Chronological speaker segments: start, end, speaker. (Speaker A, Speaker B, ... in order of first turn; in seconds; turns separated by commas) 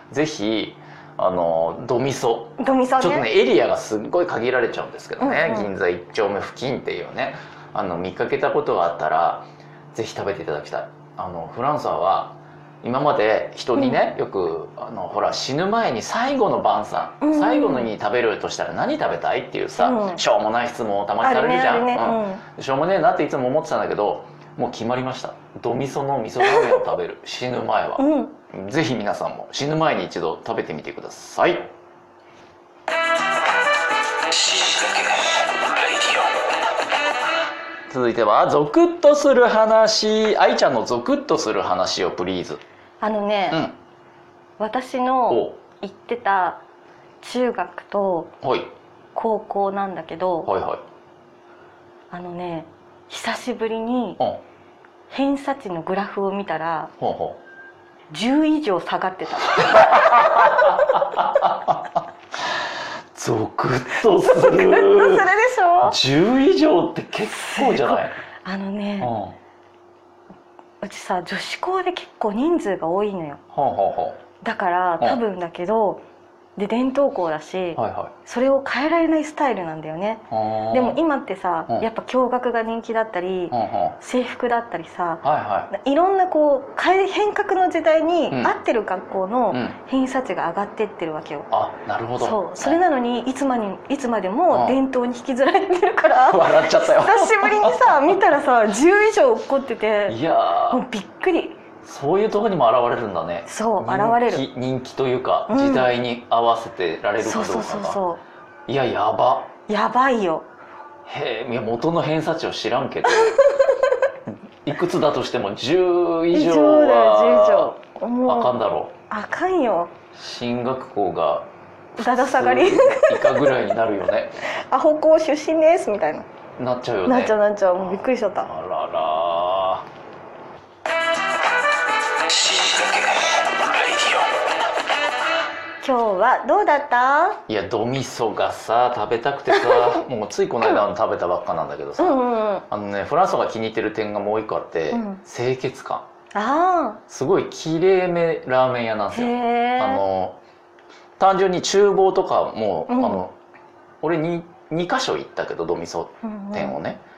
Speaker A: 0.1-31.7, Speaker B: 2.6-3.3, Speaker B: 5.2-5.7, Speaker B: 17.2-17.9, Speaker B: 19.8-20.2, Speaker B: 21.2-22.4, Speaker B: 28.0-28.4, Speaker A: 37.9-42.6, Speaker B: 43.0-43.6, Speaker B: 44.6-46.6, Speaker A: 45.3-45.6, Speaker B: 47.2-48.3, Speaker A: 48.4-48.7, Speaker B: 49.1-50.5, Speaker A: 50.5-50.8, Speaker B: 52.1-54.2, Speaker B: 55.1-56.9, Speaker A: 57.0-57.4, Speaker B: 58.1-60.5, Speaker A: 59.6-62.0, Speaker A: 63.1-65.2, Speaker B: 64.2-66.0, Speaker A: 65.8-68.2, Speaker B: 67.3-69.1, Speaker A: 69.0-69.4, Speaker B: 70.8-73.4, Speaker A: 73.5-74.2, Speaker B: 74.4-76.0, Speaker B: 76.6-91.5, Speaker A: 77.8-78.1, Speaker A: 80.3-81.0, Speaker A: 83.5-84.0, Speaker A: 85.2-85.7, Speaker A: 91.5-92.8, Speaker B: 92.2-100.2, Speaker A: 94.5-94.8, Speaker A: 96.3-98.2, Speaker A: 100.1-100.8, Speaker B: 100.7-101.6, Speaker A: 101.8-108.0, Speaker B: 103.5-104.4, Speaker B: 105.5-105.9, Speaker B: 107.2-108.2, Speaker A: 108.7-109.5, Speaker B: 109.7-110.5, Speaker A: 111.1-113.4, Speaker B: 113.1-113.7, Speaker A: 114.7-117.7, Speaker B: 116.3-118.6, Speaker A: 118.3-118.9, Speaker B: 119.1-119.9, Speaker A: 120.2-124.4, Speaker B: 122.0-123.4, Speaker B: 124.4-126.3, Speaker A: 126.6-129.9, Speaker B: 127.1-128.5, Speaker B: 135.8-137.4, Speaker A: 137.5-146.1, Speaker B: 142.0-142.7, Speaker B: 144.9-145.2, Speaker B: 146.3-147.0, Speaker A: 147.1-150.4, Speaker B: 149.1-150.0, Speaker A: 151.2-153.3, Speaker B: 152.9-153.2, Speaker A: 154.0-157.0, Speaker B: 156.2-156.8